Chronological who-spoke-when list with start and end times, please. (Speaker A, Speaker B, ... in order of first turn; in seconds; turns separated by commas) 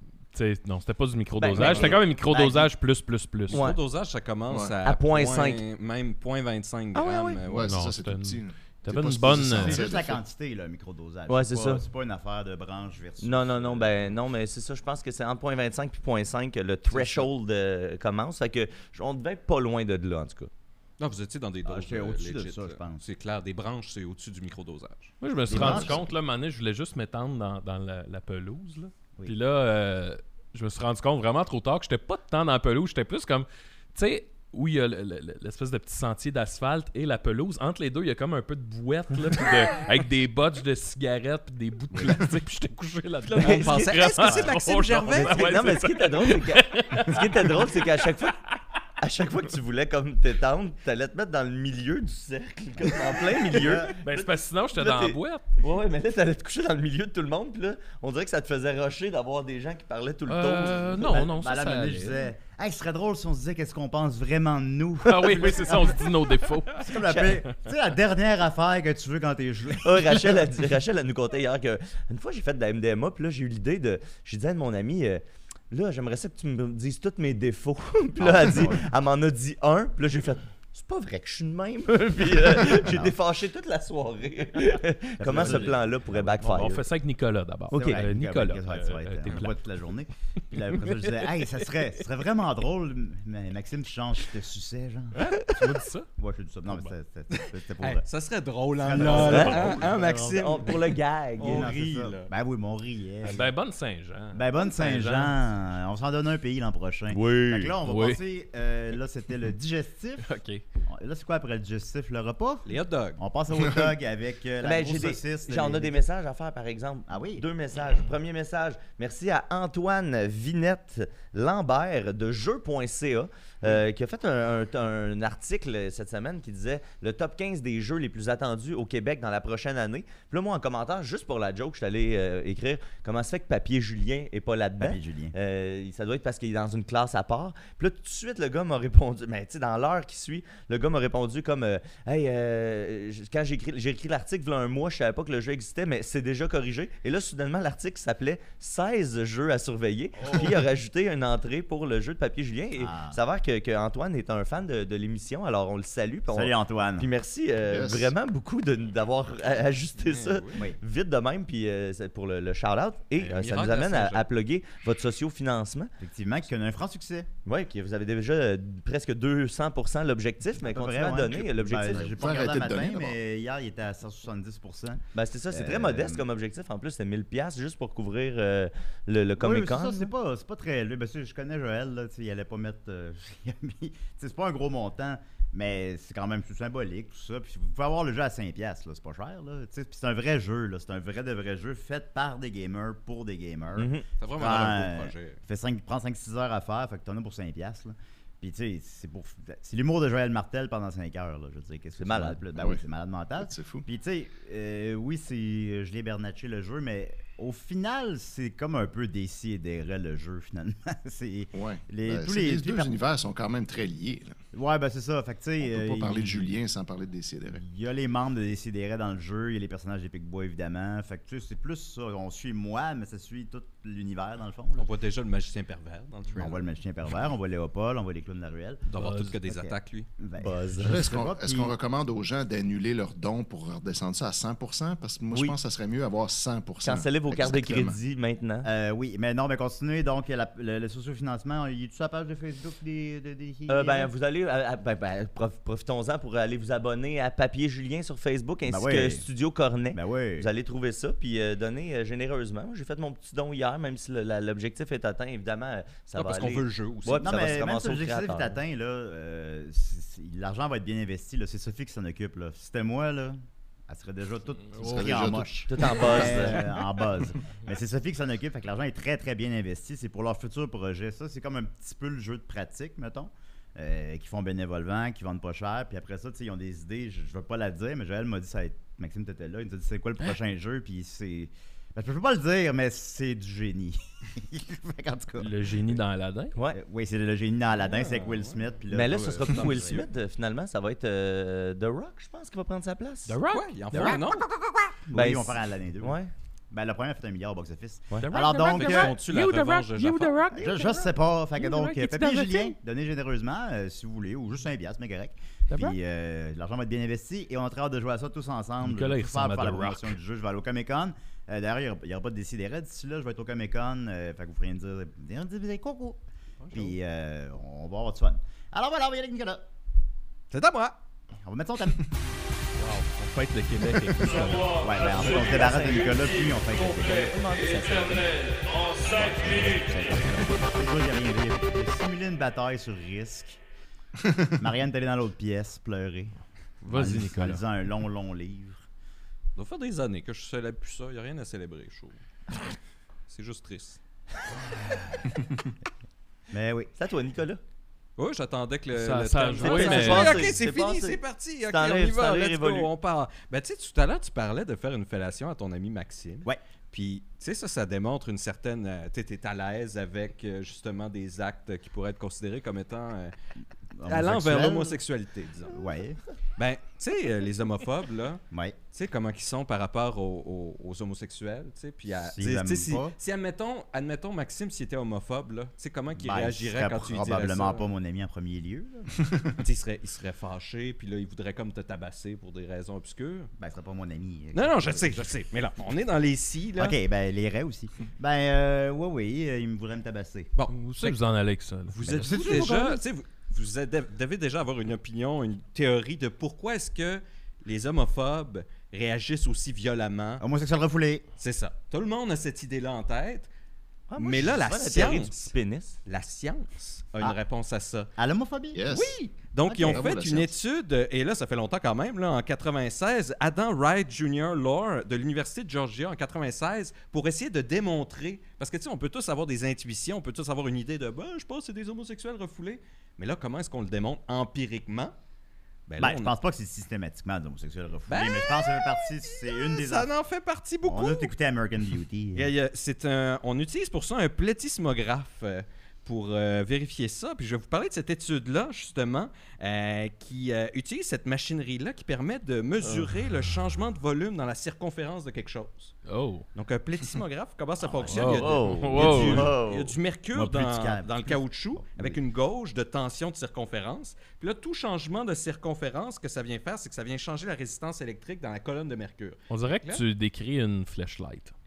Speaker A: 0.3-3.6, Speaker B: 1.4-2.1, Speaker C: 1.6-2.7, Speaker B: 3.5-3.8, Speaker D: 3.5-7.8, Speaker E: 4.5-4.7, Speaker B: 4.8-5.6, Speaker B: 6.9-7.4, Speaker E: 7.5-10.2, Speaker A: 7.6-9.9, Speaker C: 9.5-13.9, Speaker B: 11.3-11.8, Speaker B: 13.2-20.5, Speaker C: 16.9-17.2, Speaker D: 21.0-25.1, Speaker C: 21.6-23.0, Speaker A: 25.2-48.5, Speaker C: 25.5-26.1, Speaker E: 25.5-26.1, Speaker C: 41.9-42.2, Speaker D: 43.3-45.5, Speaker B: 43.4-44.5, Speaker B: 45.1-48.4, Speaker B: 49.0-61.3, Speaker C: 53.5-53.9, Speaker A: 53.9-55.6, Speaker A: 60.3-62.3, Speaker C: 61.1-66.2, Speaker A: 65.0-67.6, Speaker C: 66.7-70.4, Speaker B: 67.0-67.4, Speaker B: 69.8-86.8, Speaker C: 78.2-78.9, Speaker C: 82.8-83.1, Speaker C: 85.2-86.6, Speaker A: 85.3-85.7, Speaker A: 86.4-89.6, Speaker B: 87.7-88.0, Speaker C: 87.7-95.2, Speaker A: 90.6-91.7, Speaker A: 95.1-96.1, Speaker C: 96.2-98.0, Speaker D: 97.3-102.3, Speaker C: 98.8-100.7, Speaker A: 99.0-100.1, Speaker B: 99.1-101.8, Speaker C: 101.4-103.5, Speaker A: 103.2-105.3, Speaker C: 104.3-110.3, Speaker B: 107.2-107.7, Speaker A: 107.4-108.2, Speaker A: 110.2-110.6, Speaker C: 110.9-116.0, Speaker D: 112.7-113.2, Speaker E: 113.6-113.9, Speaker B: 114.6-165.9, Speaker C: 117.1-117.4, Speaker C: 134.8-135.3, Speaker C: 152.8-153.2, Speaker C: 156.3-157.1, Speaker E: 157.7-158.1, Speaker D: 160.0-160.6, Speaker D: 163.2-164.2, Speaker C: 166.0-167.3, Speaker B: 167.4-172.2, Speaker C: 170.6-176.2, Speaker E: 171.9-173.2, Speaker B: 175.1-180.1, Speaker C: 179.4-212.9, Speaker B: 193.8-194.1, Speaker D: 194.2-195.4, Speaker B: 202.0-202.4, Speaker E: 202.6-202.8, Speaker E: 203.4-203.8, Speaker E: 211.5-214.3, Speaker C: 214.5-216.5, Speaker E: 215.6-217.6, Speaker C: 217.5-224.9, Speaker D: 224.8-226.6, Speaker C: 226.3-228.9, Speaker D: 228.9-230.1, Speaker A: 228.9-229.4, Speaker C: 229.4-231.7, Speaker B: 230.4-231.0, Speaker E: 230.8-238.0, Speaker B: 236.8-238.7, Speaker C: 238.6-244.1, Speaker B: 243.7-258.6, Speaker C: 248.7-249.2, Speaker C: 249.9-250.5, Speaker D: 256.1-257.4, Speaker C: 257.2-286.0, Speaker E: 264.8-266.5, Speaker B: 265.7-266.7, Speaker A: 285.4-286.6, Speaker C: 286.7-290.0, Speaker D: 287.8-288.6, Speaker B: 288.9-293.4, Speaker D: 289.2-290.0, Speaker A: 293.3-294.3, Speaker D: 293.5-294.5, Speaker C: 295.0-296.2, Speaker B: 295.1-296.3, Speaker C: 296.7-299.2, Speaker A: 298.2-302.7, Speaker D: 298.6-300.5, Speaker C: 300.5-316.2, Speaker A: 305.7-306.0, Speaker A: 308.8-310.1, Speaker C: 316.7-319.6, Speaker D: 320.5-321.0, Speaker C: 321.4-322.0, Speaker A: 322.8-324.8, Speaker D: 323.8-324.6, Speaker C: 324.8-327.4, Speaker B: 325.1-326.4, Speaker B: 327.1-328.6, Speaker C: 329.1-333.6, Speaker B: 329.1-330.1, Speaker C: 334.6-338.8, Speaker A: 336.8-337.6, Speaker D: 339.6-342.2, Speaker D: 343.3-344.0, Speaker C: 346.5-346.9, Speaker B: 346.9-347.6, Speaker D: 348.2-363.3, Speaker A: 348.9-350.5, Speaker B: 349.6-352.9, Speaker C: 363.9-365.0, Speaker D: 364.1-365.8, Speaker C: 365.7-366.2, Speaker D: 366.6-368.4, Speaker D: 368.9-377.9, Speaker C: 372.1-373.1, Speaker C: 376.2-379.1, Speaker D: 379.6-383.5, Speaker C: 383.6-385.3, Speaker D: 384.5-387.0, Speaker C: 386.8-390.5, Speaker D: 390.5-391.2, Speaker A: 390.7-392.7, Speaker D: 391.9-400.4, Speaker C: 392.1-393.0, Speaker C: 400.4-401.2, Speaker D: 401.4-403.5, Speaker B: 404.1-406.0, Speaker D: 404.2-405.5, Speaker D: 406.1-408.1, Speaker C: 408.2-408.8, Speaker E: 408.7-409.2, Speaker D: 408.9-425.1, Speaker C: 409.6-410.1, Speaker E: 409.8-410.5, Speaker D: 425.9-426.3, Speaker C: 426.0-430.1, Speaker D: 428.1-431.3, Speaker C: 430.8-432.5, Speaker D: 432.3-445.9, Speaker A: 446.1-446.4, Speaker D: 446.5-460.0, Speaker B: 447.9-449.9, Speaker A: 448.1-449.5, Speaker C: 450.3-452.2, Speaker A: 459.5-461.5